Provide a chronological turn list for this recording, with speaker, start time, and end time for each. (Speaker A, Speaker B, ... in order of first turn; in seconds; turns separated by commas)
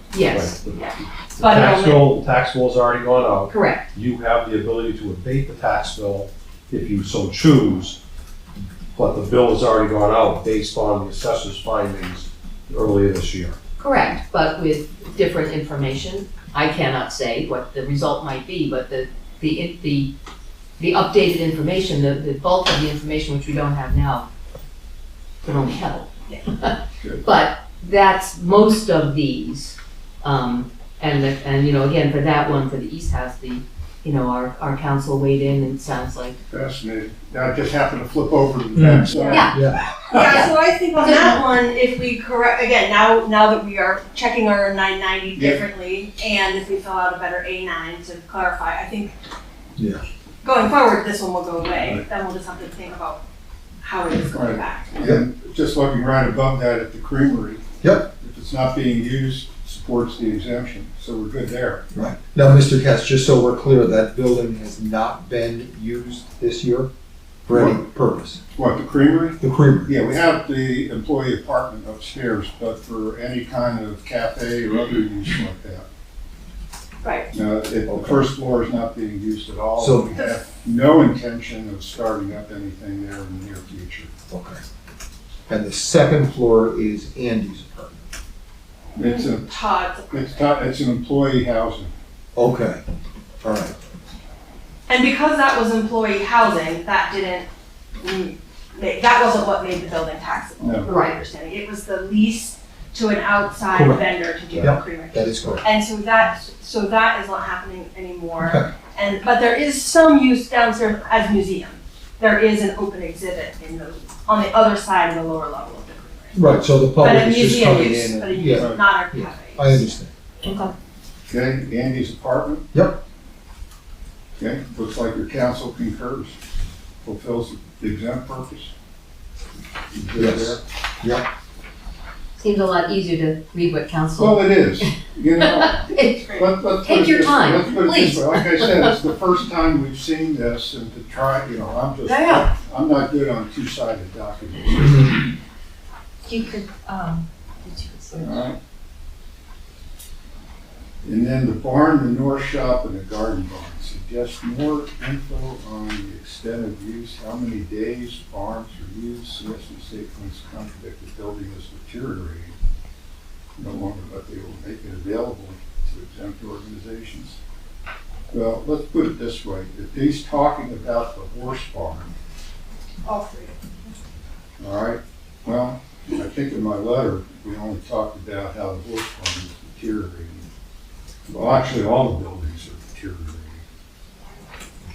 Speaker A: 0.1-0.6, Speaker B: 0.3-8.0, Speaker C: 0.7-2.1, Speaker A: 3.5-3.9, Speaker B: 8.9-13.6, Speaker A: 13.8-20.1, Speaker A: 20.8-24.3, Speaker A: 25.4-36.4, Speaker D: 27.0-27.3, Speaker D: 36.5-40.4, Speaker E: 38.7-39.8, Speaker C: 39.1-39.5, Speaker A: 39.3-39.5, Speaker C: 40.1-49.1, Speaker A: 40.2-40.5, Speaker D: 45.3-45.6, Speaker E: 49.8-50.0, Speaker C: 50.4-53.2, Speaker C: 53.8-54.9, Speaker D: 54.3-61.8, Speaker E: 57.8-58.1, Speaker E: 61.9-66.9, Speaker E: 67.5-68.4, Speaker D: 67.5-67.8, Speaker D: 68.5-75.8, Speaker E: 69.4-69.9, Speaker C: 77.0-77.3, Speaker D: 77.3-84.1, Speaker E: 77.9-78.2, Speaker E: 79.8-80.1, Speaker E: 84.3-84.6, Speaker E: 85.5-87.9, Speaker D: 89.0-89.5, Speaker C: 89.0-90.5, Speaker D: 90.1-91.9, Speaker E: 92.3-92.8, Speaker E: 93.4-93.7, Speaker C: 94.9-97.5, Speaker C: 98.0-119.9, Speaker D: 100.6-100.9, Speaker A: 100.8-101.2, Speaker E: 103.7-105.6, Speaker E: 108.4-108.7, Speaker E: 116.3-120.1, Speaker D: 118.5-118.8, Speaker F: 120.4-120.7, Speaker D: 121.3-122.6, Speaker E: 122.7-123.0, Speaker D: 124.4-126.4, Speaker D: 127.0-128.7, Speaker D: 129.9-130.6, Speaker E: 130.1-131.3, Speaker A: 132.4-139.0, Speaker D: 134.2-145.2, Speaker C: 136.2-136.5, Speaker C: 142.1-142.5, Speaker F: 146.3-148.4, Speaker D: 148.2-148.6, Speaker D: 151.0-162.6, Speaker D: 163.6-167.4, Speaker D: 168.3-172.1, Speaker C: 173.0-173.9, Speaker D: 174.6-180.5, Speaker D: 181.3-183.6